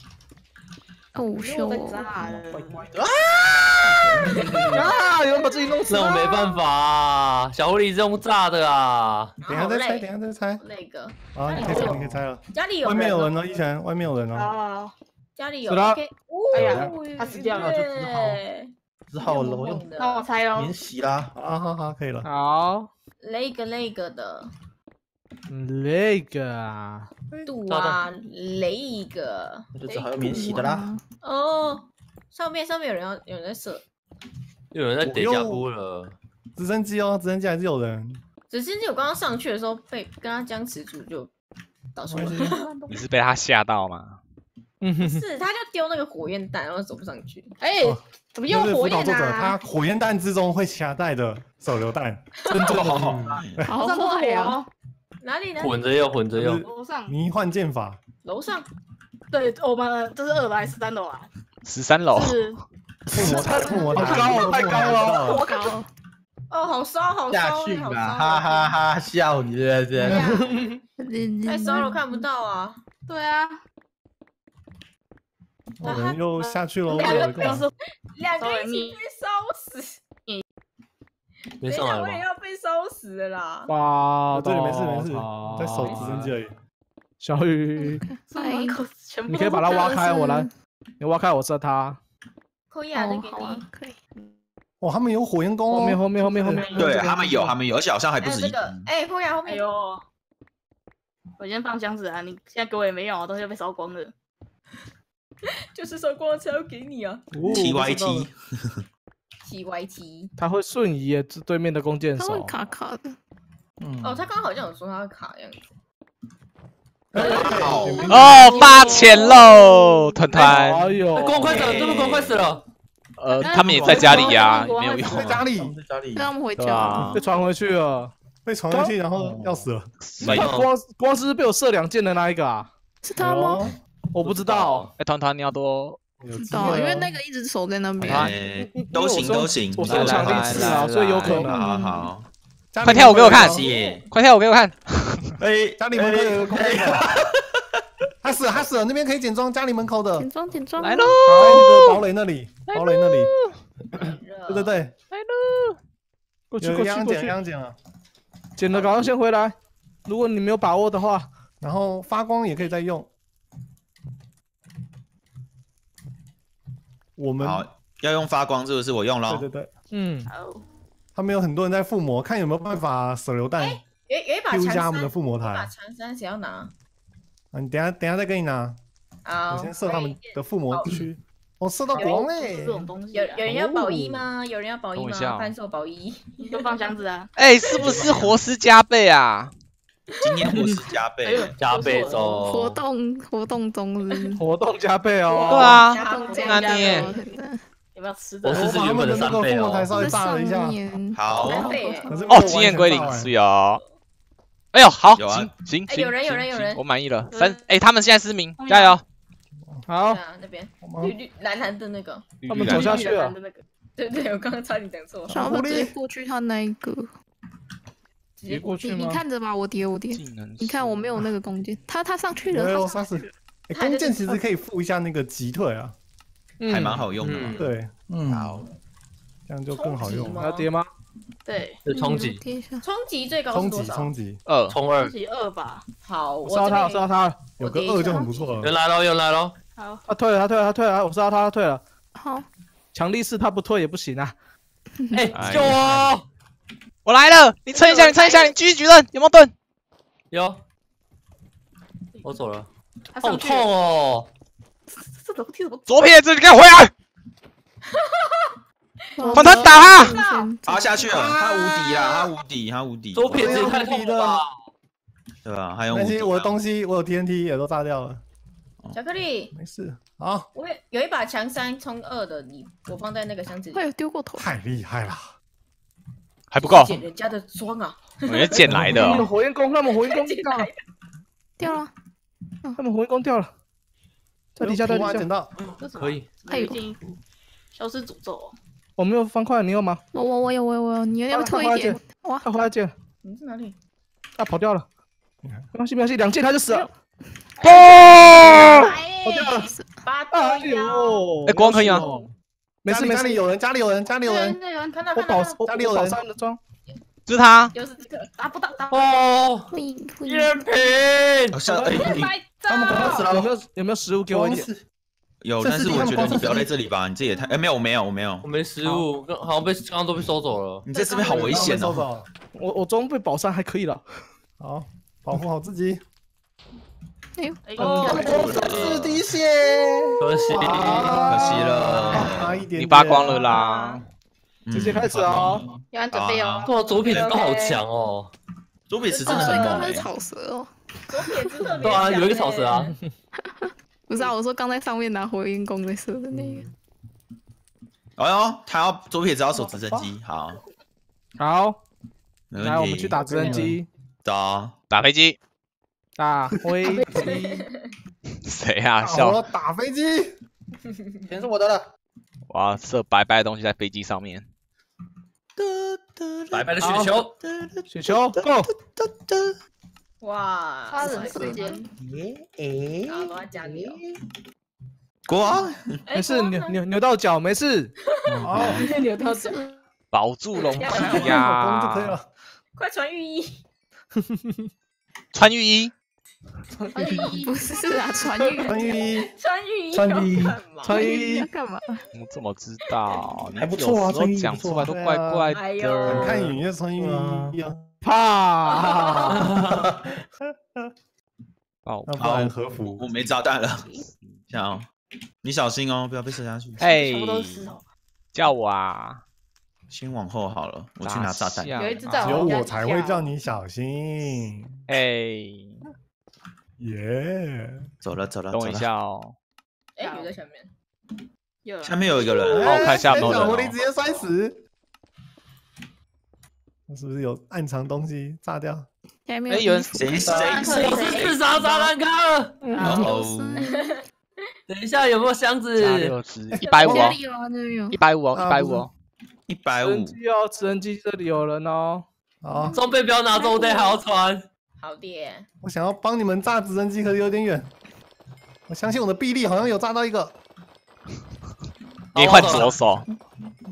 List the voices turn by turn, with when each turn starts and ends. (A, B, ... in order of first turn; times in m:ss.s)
0:01.2-0:02.4 A
0:01.3-0:02.7 B
0:02.3-0:04.8 C
0:04.3-0:04.6 D
0:04.4-0:04.8 E
0:04.7-0:06.0 F
0:05.9-0:09.4 E
0:06.0-0:06.3 A
0:09.4-0:10.1 D
0:09.5-0:10.6 G
0:10.6-0:12.0 D
0:11.3-0:14.5 G
0:11.8-0:12.2 C
0:12.5-0:13.3 D
0:14.4-0:14.9 B
0:15.4-0:18.7 D
0:15.7-0:16.0 F
0:16.5-0:17.6 B
0:16.6-0:16.9 C
0:17.5-0:18.4 C
0:19.1-0:19.9 C
0:19.2-0:20.3 D
0:20.0-0:20.7 B
0:20.5-0:21.3 C
0:21.4-0:22.3 G
0:22.2-0:22.9 F
0:23.2-0:24.5 D
0:25.5-0:27.1 F
0:27.5-0:30.5 D
0:27.7-0:28.0 E
0:29.8-0:30.9 C
0:30.2-0:31.0 A
0:31.2-0:33.8 D
0:34.7-0:36.2 E
0:35.0-0:35.7 G
0:36.6-0:38.2 G
0:38.5-0:41.3 D
0:42.0-0:42.7 D
0:42.1-0:42.6 G
0:42.6-0:42.9 B
0:42.9-0:44.2 H
0:44.8-0:45.2 F
0:45.0-0:47.5 D
0:47.6-0:49.6 B
0:47.8-0:53.7 G
0:52.4-0:52.9 D
0:52.8-0:53.7 I
0:53.6-0:54.6 A
0:53.8-0:54.7 B
0:55.2-0:55.8 D
0:55.6-0:56.6 E
0:56.4-0:58.0 G
0:56.7-0:57.1 B
0:58.2-0:58.7 D
0:59.3-1:01.3 B
1:01.6-1:02.6 H
1:02.1-1:02.5 B
1:03.1-1:05.4 G
1:03.3-1:03.9 B
1:03.6-1:04.4 D
1:04.2-1:05.2 C
1:04.4-1:04.8 F
1:04.8-1:05.9 A
1:05.1-1:05.7 B
1:06.5-1:08.8 D
1:07.3-1:10.4 C
1:10.0-1:10.7 D
1:11.0-1:12.2 A
1:11.4-1:12.8 D
1:13.1-1:13.6 B
1:15.8-1:17.7 G
1:15.8-1:16.2 D
1:16.4-1:17.6 B
1:16.9-1:20.0 D
1:18.4-1:19.0 B
1:21.6-1:22.2 E
1:21.6-1:23.7 D
1:23.7-1:26.3 F
1:24.3-1:26.5 G
1:27.2-1:28.1 F
1:27.8-1:28.8 A
1:28.3-1:30.0 B
1:29.3-1:32.0 F
1:29.7-1:30.5 A
1:32.7-1:33.6 D
1:32.9-1:34.0 A
1:34.8-1:36.0 G
1:35.7-1:37.4 F
1:36.2-1:36.7 B
1:36.7-1:38.9 I
1:38.2-1:39.6 D
1:39.5-1:40.0 B
1:41.4-1:44.1 B
1:45.7-1:47.2 D
1:47.4-1:48.0 F
1:47.5-1:48.8 I
1:47.6-1:48.2 G
1:49.4-1:50.3 D
1:50.4-1:52.5 F
1:52.2-1:53.2 A
1:53.8-1:54.2 C
1:54.0-1:55.6 D
1:57.1-1:58.8 G
1:57.2-1:57.7 E
1:57.4-1:58.0 I
1:58.1-2:01.0 H
1:58.4-1:59.3 B
1:59.6-2:00.0 A
2:00.3-2:01.6 F
2:01.1-2:02.6 E
2:01.5-2:02.5 I
2:03.2-2:05.2 H
2:03.4-2:05.3 B
2:03.9-2:04.4 C
2:05.1-2:05.8 G
2:05.5-2:06.3 C
2:06.1-2:07.1 A
2:06.6-2:07.2 G
2:06.6-2:07.2 H
2:07.1-2:08.1 F
2:08.4-2:09.9 G
2:09.2-2:09.7 C
2:10.0-2:10.6 H
2:10.2-2:12.7 F
2:10.2-2:10.7 E
2:13.0-2:13.7 A
2:13.2-2:13.8 G
2:14.1-2:14.8 F
2:14.2-2:14.9 E
2:14.9-2:16.0 H
2:16.2-2:17.1 G
2:16.4-2:18.4 A
2:18.0-2:22.3 I
2:18.0-2:18.3 H
2:18.8-2:21.6 F
2:19.8-2:21.5 H
2:22.7-2:23.7 G
2:22.8-2:25.4 H
2:23.3-2:24.1 I
2:25.4-2:27.6 I
2:25.8-2:27.0 G
2:28.2-2:30.3 G
2:30.2-2:31.3 A
2:30.8-2:32.0 H
2:31.2-2:33.3 G
2:32.7-2:33.6 H
2:34.0-2:34.8 D
2:34.5-2:34.9 G
2:35.1-2:35.8 H
2:36.5-2:37.4 F
2:36.6-2:37.8 G
2:38.6-2:39.6 F
2:40.1-2:41.3 F
2:41.6-2:43.1 G
2:47.2-2:47.7 G
2:47.4-2:49.5 I
2:49.3-2:49.7 G
2:49.9-2:50.3 F
2:50.3-2:50.6 B
2:51.2-2:53.8 G
2:53.6-2:56.7 D
2:54.5-2:55.7 G
2:57.5-2:58.8 G
2:59.2-3:01.0 D
2:59.5-3:02.9 G
3:02.0-3:03.5 B
3:03.1-3:06.9 D
3:05.0-3:05.5 H
3:06.4-3:07.3 B
3:07.4-3:09.5 H
3:07.8-3:08.3 E
3:07.8-3:08.0 D
3:10.2-3:11.5 I
3:11.2-3:12.3 B
3:11.6-3:12.8 E
3:12.3-3:14.4 A
3:14.1-3:14.4 D
3:14.4-3:15.8 F
3:15.2-3:17.1 D
3:15.5-3:17.1 H
3:15.9-3:17.6 A
3:16.2-3:17.2 B
3:17.9-3:18.6 B
3:18.4-3:20.0 E
3:18.5-3:20.8 G
3:19.9-3:22.4 A
3:21.1-3:21.7 I
3:21.4-3:22.3 D
3:22.1-3:23.3 G
3:22.3-3:23.8 H
3:24.7-3:29.0 H
3:25.1-3:25.5 I
3:25.9-3:26.8 D
3:27.3-3:27.6 B
3:28.6-3:29.0 B
3:29.9-3:30.2 F
3:30.0-3:32.3 D
3:30.8-3:31.2 G
3:32.4-3:33.2 H
3:32.5-3:33.4 F
3:32.7-3:33.6 B
3:34.0-3:35.8 D
3:35.3-3:36.0 G
3:35.3-3:37.1 A
3:38.4-3:38.8 D
3:38.5-3:39.2 F
3:38.8-3:43.3 A
3:40.1-3:41.2 H
3:42.5-3:46.0 G
3:43.7-3:44.4 D
3:46.6-3:47.1 F
3:46.7-3:47.7 I
3:47.2-3:47.7 E
3:47.6-3:47.9 G
3:48.1-3:48.6 C
3:48.3-3:48.6 I
3:49.5-3:50.4 G
3:49.7-3:50.7 D
3:50.4-3:50.9 F
3:51.5-3:51.8 B
3:51.8-3:52.4 E
3:51.9-3:52.8 A
3:52.8-3:54.1 D
3:53.5-3:54.4 G
3:54.5-3:54.8 H
3:54.7-3:55.1 E
3:55.0-3:55.8 B
3:56.0-3:57.1 D
3:56.4-3:57.6 F
3:57.6-3:58.8 G
3:58.6-3:59.6 E
3:59.8-4:00.0 B
4:00.1-4:01.8 F
4:02.2-4:02.5 A
4:02.9-4:04.3 F
4:05.0-4:05.3 A
4:05.1-4:06.3 E
4:05.3-4:06.1 H
4:07.0-4:09.5 H
4:10.3-4:10.6 E
4:12.2-4:12.7 E
4:13.1-4:13.7 B
4:13.2-4:14.3 E
4:14.9-4:16.1 B
4:15.9-4:16.9 H
4:18.0-4:18.5 D
4:19.2-4:20.9 A
4:19.2-4:20.0 G
4:19.3-4:20.2 H
4:20.7-4:23.6 I
4:21.0-4:22.2 G
4:23.2-4:24.5 E
4:23.3-4:24.4 G
4:25.4-4:26.6 I
4:25.9-4:28.2 G
4:28.9-4:29.5 D
4:29.5-4:30.5 G
4:30.5-4:33.9 D
4:33.7-4:34.5 A
4:34.4-4:35.3 G
4:36.5-4:37.0 H
4:36.6-4:38.6 D
4:38.3-4:39.3 H
4:38.6-4:40.7 F
4:38.6-4:39.2 G
4:39.9-4:40.7 D
4:41.6-4:41.9 A
4:42.8-4:43.5 F
4:44.6-4:45.3 F
4:44.6-4:45.5 G
4:45.6-4:46.3 E
4:45.8-4:47.0 B
4:46.4-4:46.9 A
4:47.7-4:48.6 B
4:49.0-4:50.0 F
4:50.1-4:52.5 A
4:51.3-4:52.9 F
4:53.2-4:53.8 D
4:54.4-4:54.9 F
4:55.7-4:56.9 F
4:56.6-4:56.9 A
4:57.6-4:58.8 H
4:57.6-4:59.1 B
4:58.1-5:01.3 D
4:58.7-4:59.9 A
4:58.8-4:59.7 F
5:00.3-5:02.3 F
5:01.4-5:02.1 H
5:02.8-5:03.4 F
5:02.9-5:04.6 G
5:04.4-5:05.6 D
5:05.2-5:06.6 F
5:05.6-5:06.2 G
5:07.3-5:07.7 H
5:07.7-5:08.3 D
5:08.4-5:09.1 B
5:08.9-5:09.7 E
5:09.7-5:10.5 A
5:10.2-5:11.6 E
5:11.5-5:12.3 I
5:11.8-5:13.3 B
5:12.6-5:13.6 C
5:13.3-5:14.7 F
5:14.2-5:14.8 C
5:15.4-5:18.5 I
5:15.6-5:16.7 C
5:18.4-5:20.8 E
5:20.8-5:22.1 I
5:21.0-5:21.7 D
5:21.3-5:22.3 G
5:22.5-5:24.0 F
5:24.6-5:26.0 G
5:27.4-5:28.4 A
5:27.7-5:28.7 B
5:27.8-5:29.2 I
5:27.8-5:30.8 C
5:30.2-5:31.3 E
5:30.5-5:33.6 G
5:30.8-5:31.7 F
5:31.1-5:32.6 I
5:32.7-5:34.0 H
5:33.2-5:34.0 D
5:34.7-5:37.4 I
5:34.7-5:35.6 F
5:35.9-5:36.6 B
5:36.6-5:38.3 E
5:37.0-5:37.8 D
5:38.9-5:40.1 I
5:39.1-5:40.0 D
5:39.2-5:41.5 A
5:41.1-5:43.0 D
5:41.8-5:42.9 E
5:43.4-5:46.7 A
5:48.2-5:50.6 I
5:51.4-5:51.8 F
5:52.5-5:53.3 I
5:52.6-5:53.9 F
5:53.2-5:53.8 G
5:54.2-5:54.7 I
5:54.9-5:55.4 H
5:56.2-5:57.6 F
5:56.9-5:57.2 B
5:57.1-5:57.9 D
5:58.4-5:59.4 H
5:59.0-6:00.3 G
6:01.3-6:01.9 C
6:02.5-6:04.5 H
6:05.6-6:07.9 I
6:06.5-6:07.3 E
6:06.8-6:07.1 F
6:07.9-6:08.7 F
6:08.9-6:09.5 I
6:10.2-6:11.8 D
6:10.9-6:11.7 B
6:11.1-6:11.8 A
6:12.1-6:14.2 C
6:13.1-6:14.0 D
6:15.3-6:16.0 I
6:16.1-6:16.8 D
6:16.1-6:17.9 F
6:18.1-6:18.6 D
6:18.4-6:18.7 I
6:18.5-6:18.8 G
6:18.8-6:19.6 B
6:19.2-6:19.6 A
6:20.1-6:22.2 H
6:20.5-6:21.6 D
6:20.9-6:22.3 G
6:22.8-6:23.6 D
6:25.3-6:25.9 H
6:26.9-6:27.5 B
6:27.2-6:28.9 A
6:28.6-6:29.3 G
6:29.0-6:31.3 D
6:29.9-6:30.6 G
6:30.8-6:31.5 F
6:30.9-6:32.0 A
6:32.1-6:36.4 H
6:33.6-6:34.9 C
6:34.9-6:37.8 G
6:35.5-6:36.5 D
6:37.0-6:37.6 C
6:38.0-6:39.4 F
6:38.7-6:39.4 D
6:39.3-6:39.9 E
6:39.3-6:39.9 C
6:40.4-6:40.9 G
6:41.8-6:42.5 H
6:42.0-6:43.1 G
6:42.2-6:44.0 I
6:44.5-6:44.9 I
6:45.4-6:46.9 I
6:46.8-6:47.8 H
6:46.9-6:47.8 B
6:48.3-6:49.2 H
6:49.9-6:51.8 I
6:51.0-6:52.6 H
6:51.8-6:53.2 B
6:52.2-6:54.8 G
6:54.9-6:55.9 H
6:56.8-6:57.9 G
6:58.0-6:58.9 I
6:58.5-6:59.4 H
7:00.0-7:00.7 D
7:00.0-7:00.3 B
7:01.6-7:02.0 B
7:01.8-7:03.5 I
7:02.5-7:04.6 G
7:02.6-7:03.8 H
7:06.9-7:08.9 G
7:09.3-7:10.5 A
7:09.5-7:09.9 H
7:09.9-7:11.2 I
7:10.3-7:10.6 C
7:10.4-7:11.9 D
7:10.5-7:11.1 B
7:10.6-7:12.6 E
7:12.6-7:13.2 F
7:12.8-7:13.6 I
7:13.0-7:14.0 A
7:13.6-7:14.0 D
7:14.7-7:16.2 E
7:15.8-7:17.2 H
7:16.5-7:17.2 G
7:16.6-7:17.2 D
7:16.8-7:18.0 A
7:17.9-7:18.9 H
7:18.3-7:18.9 G
7:19.5-7:20.2 I
7:19.8-7:22.0 F
7:22.4-7:22.8 G
7:22.5-7:22.8 A
7:22.8-7:24.4 E
7:23.3-7:24.0 A
7:24.8-7:25.5 D
7:25.6-7:27.7 G
7:28.7-7:30.4 G
7:32.2-7:32.8 E
7:32.2-7:33.1 H